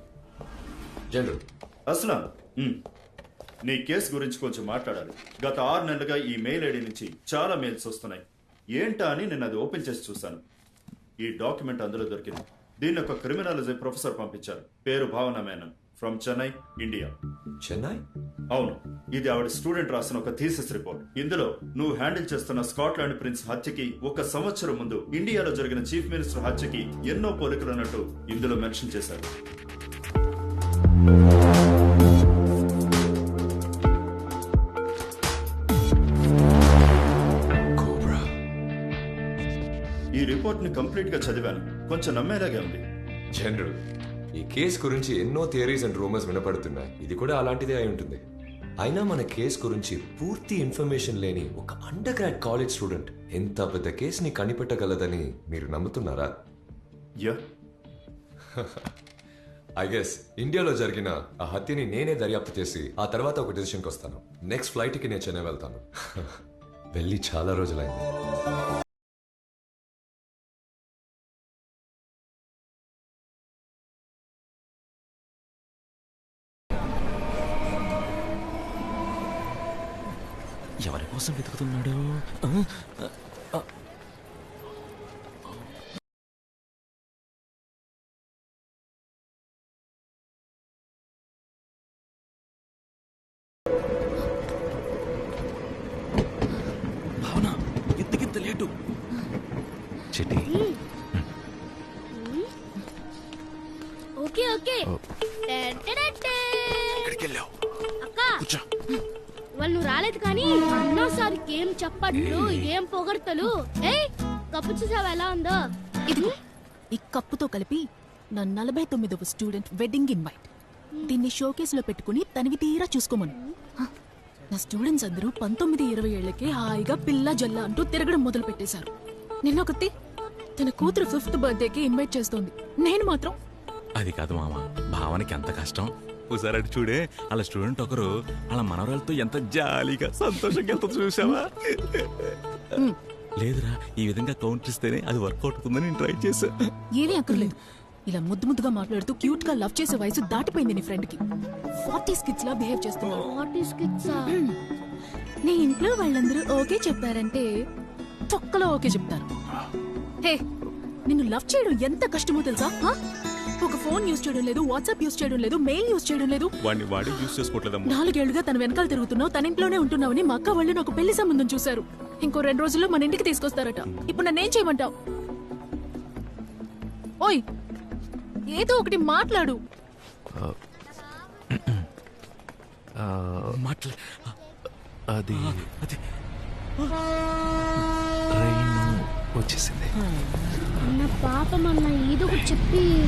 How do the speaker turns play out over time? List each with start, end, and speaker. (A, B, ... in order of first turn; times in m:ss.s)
0:01.1-0:01.4 A
0:01.9-0:02.8 B
0:03.7-0:08.2 B
0:08.8-0:10.4 B
0:11.2-0:17.1 B
0:17.6-0:18.0 A
0:18.5-0:29.3 B
0:37.8-0:38.3 A
0:40.2-0:42.8 B
0:43.3-0:43.8 A
0:44.4-0:48.2 A
0:48.8-0:56.4 A
0:58.6-0:58.9 A
0:59.8-1:06.4 A
1:06.9-1:08.1 A
1:20.9-1:21.9 C
1:38.0-1:38.6 C
1:40.1-1:40.5 D
1:40.5-1:40.8 E
1:42.1-1:42.5 E
1:44.2-1:44.9 E
1:45.5-1:47.2 E
1:48.0-1:48.4 E
1:49.6-1:55.6 E
1:52.2-1:52.7 D
1:56.1-1:56.3 F
1:56.9-2:00.5 F
2:01.1-2:03.9 F
2:04.5-2:08.9 F
2:09.4-2:09.9 F
2:10.6-2:13.4 F
2:14.0-2:21.4 C
2:22.0-2:22.3 C
2:23.4-2:26.5 C
2:26.9-2:27.6 F
2:28.1-2:31.2 F
2:31.8-2:33.3 F
2:33.2-2:34.4 E
2:34.1-2:34.6 F
2:35.4-2:37.5 F
2:38.3-2:39.3 F
2:41.1-2:43.0 F
2:43.6-2:54.9 F
2:47.0-2:47.4 C
2:58.5-2:59.6 F
3:01.6-3:01.8 D
3:03.0-3:03.6 D
3:03.5-3:04.3 C
3:05.1-3:05.6 D
3:05.3-3:06.0 C
3:08.4-3:09.9 D
3:10.8-3:12.9 E